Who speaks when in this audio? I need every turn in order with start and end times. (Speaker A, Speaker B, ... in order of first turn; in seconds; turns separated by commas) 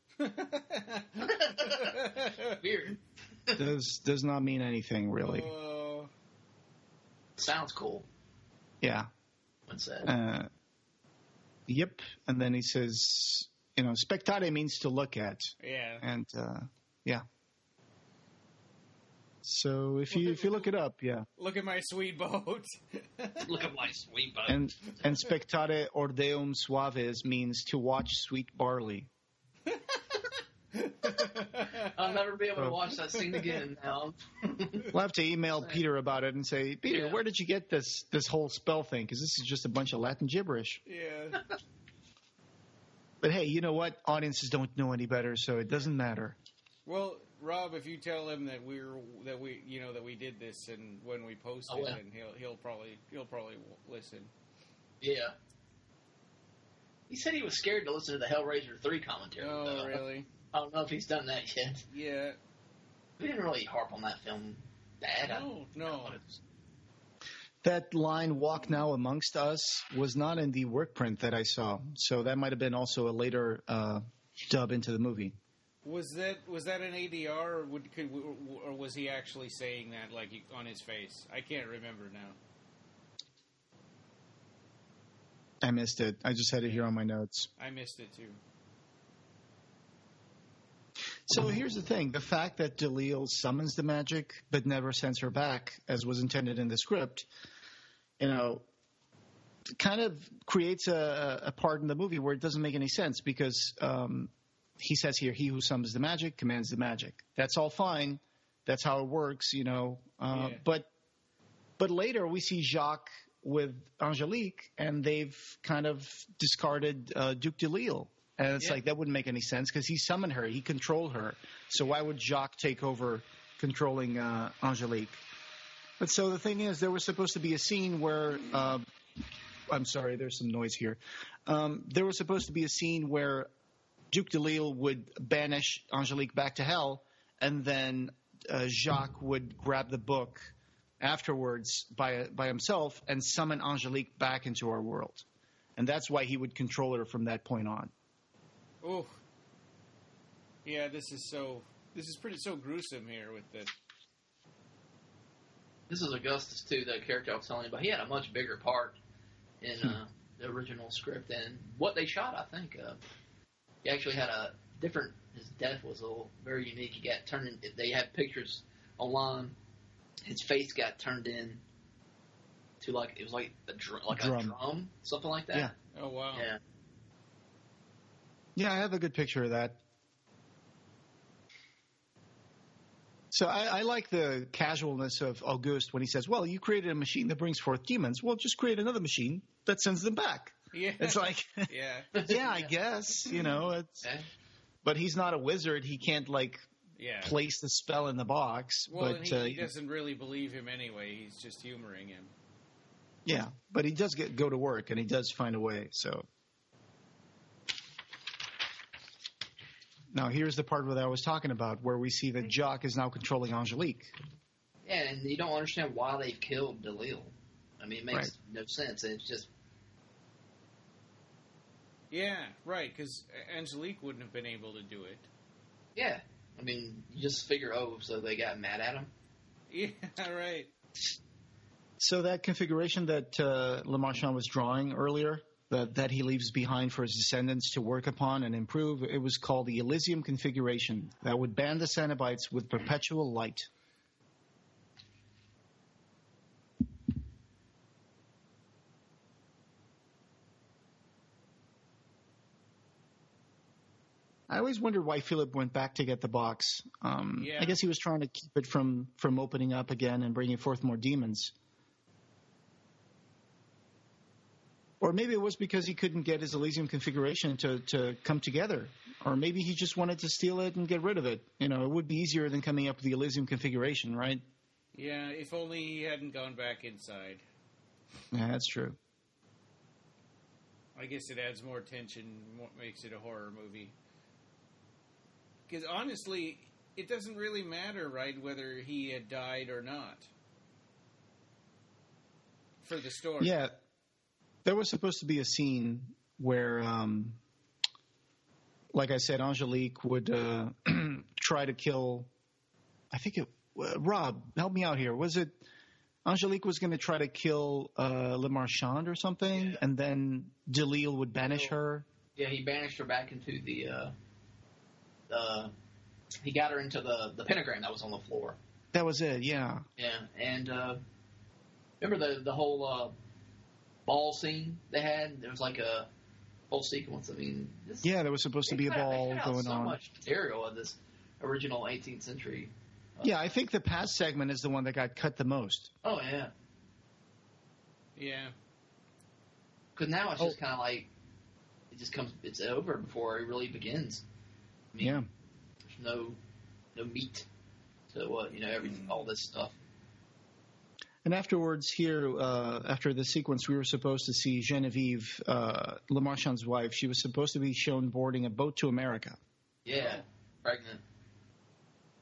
Speaker A: 0.2-2.5, Speaker B: 1.3-3.6, Speaker C: 3.6-5.5, Speaker A: 5.2-6.1, Speaker B: 7.4-8.1, Speaker C: 8.8-9.1, Speaker B: 9.7-10.1, Speaker C: 10.0-10.5, Speaker C: 11.7-17.2, Speaker A: 15.6-16.0, Speaker C: 19.4-21.3, Speaker A: 20.1-20.7, Speaker A: 21.4-23.5, Speaker B: 23.4-24.9, Speaker C: 24.5-29.1, Speaker A: 29.7-30.0, Speaker A: 30.7-32.2, Speaker B: 31.8-34.9, Speaker C: 34.9-40.8, Speaker B: 36.9-37.2, Speaker A: 40.9-41.4, Speaker C: 43.2-46.4, Speaker A: 46.9-54.3, Speaker B: 51.7-52.0, Speaker B: 55.0-55.4, Speaker B: 57.1-61.8, Speaker A: 59.4-60.3, Speaker A: 61.9-62.4, Speaker B: 63.2-66.4, Speaker A: 65.2-66.2, Speaker C: 67.6-75.4, Speaker A: 75.8-82.4, Speaker C: 85.6-87.5, Speaker A: 87.6-88.4, Speaker C: 91.3-97.3, Speaker C: 98.2-98.7, Speaker C: 99.8-110.9, Speaker A: 110.3-110.6, Speaker C: 111.8-125.2, Speaker C: 126.0-128.8, Speaker C: 129.7-133.5, Speaker C: 134.1-145.3, Speaker C: 145.8-147.9, Speaker A: 148.8-149.2, Speaker A: 150.7-153.7, Speaker B: 155.9-159.0, Speaker B: 159.6-163.0, Speaker B: 163.8-169.6, Speaker B: 170.2-171.6, Speaker B: 172.8-175.7, Speaker C: 174.1-174.6, Speaker A: 175.9-176.5, Speaker B: 176.3-176.6, Speaker C: 178.6-179.8, Speaker C: 183.3-191.7, Speaker A: 190.7-192.1, Speaker B: 192.1-192.6, Speaker C: 192.2-194.1, Speaker C: 194.8-196.7, Speaker A: 197.0-197.4, Speaker C: 197.2-199.7, Speaker A: 198.9-202.3, Speaker C: 203.3-206.3, Speaker C: 210.1-214.1, Speaker B: 214.8-219.5, Speaker A: 222.1-225.3, Speaker B: 226.0-229.1, Speaker A: 229.7-230.7, Speaker C: 232.0-243.7, Speaker C: 254.5-261.5, Speaker A: 257.4-257.8, Speaker C: 265.0-274.4, Speaker A: 274.9-277.4, Speaker C: 278.3-279.0, Speaker A: 280.9-283.9, Speaker A: 285.7-290.3, Speaker A: 292.8-293.6, Speaker C: 293.4-293.7, Speaker C: 294.6-297.4, Speaker C: 298.9-302.3, Speaker C: 303.1-305.6, Speaker C: 306.2-312.1, Speaker B: 309.5-309.8, Speaker B: 311.4-311.7, Speaker B: 312.4-314.1, Speaker B: 315.3-315.7, Speaker B: 316.4-318.6, Speaker C: 318.9-319.8, Speaker B: 320.0-321.0, Speaker B: 322.0-323.1, Speaker B: 324.1-326.1, Speaker B: 326.7-328.1, Speaker C: 328.0-330.0, Speaker B: 328.7-333.3, Speaker C: 333.2-335.9, Speaker B: 336.0-336.5, Speaker A: 338.2-338.5, Speaker B: 340.0-341.1, Speaker B: 341.9-344.2, Speaker B: 344.9-345.2, Speaker C: 345.0-345.3, Speaker B: 345.9-346.4, Speaker B: 346.9-347.5, Speaker B: 348.1-349.8, Speaker C: 351.2-359.4, Speaker B: 359.9-361.0